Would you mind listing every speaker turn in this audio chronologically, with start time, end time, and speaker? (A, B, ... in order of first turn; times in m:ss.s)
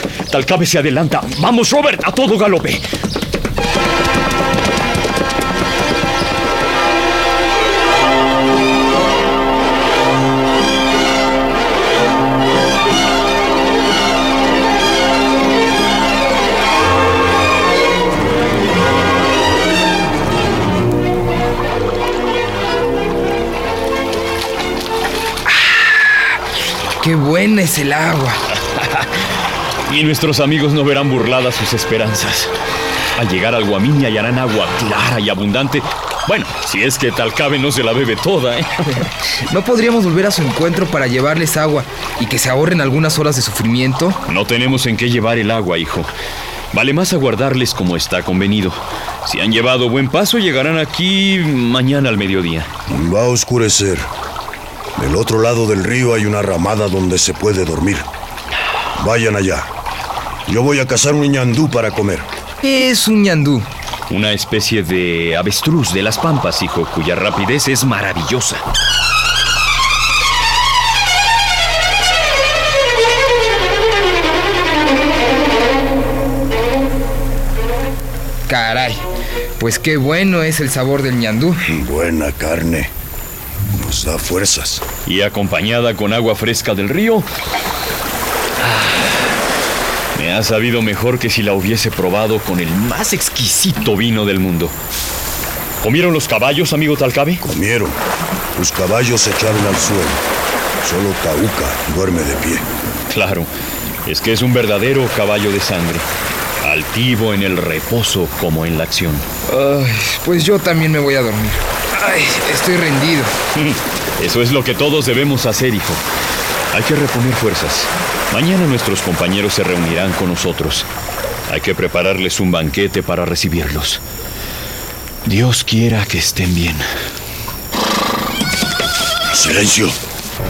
0:00.3-0:02.8 A
0:25.7-0:26.0 B
0:27.0-0:28.4 B
0:28.7-0:29.1 A
0:29.8-0:32.5 A
0:33.1-0:38.9 A
0:39.5-0:44.2 B
0:44.3-0:46.1 A
0:46.7-0:52.7 A
0:52.9-0:54.1 C
0:55.0-0:58.0 C
0:59.0-0:59.7 C
1:00.5-1:02.3 C
1:02.6-1:03.6 B
1:04.1-1:08.6 A
1:18.5-1:19.0 B
1:19.6-1:21.6 B
1:21.6-1:22.9 C
1:23.7-1:24.8 C
1:25.0-1:27.2 A
1:28.6-1:29.1 A
1:30.1-1:34.7 A
1:35.8-1:37.4 A
1:37.4-1:38.0 C
1:38.6-1:40.2 C
1:40.8-1:42.6 C
1:43.1-1:43.5 A
1:44.0-1:46.0 A
1:46.6-1:49.2 A
1:49.5-1:53.3 B
1:53.5-1:56.0 A
1:56.7-2:00.9 A
2:01.5-2:04.0 A
2:05.2-2:06.9 A
2:09.3-2:10.0 C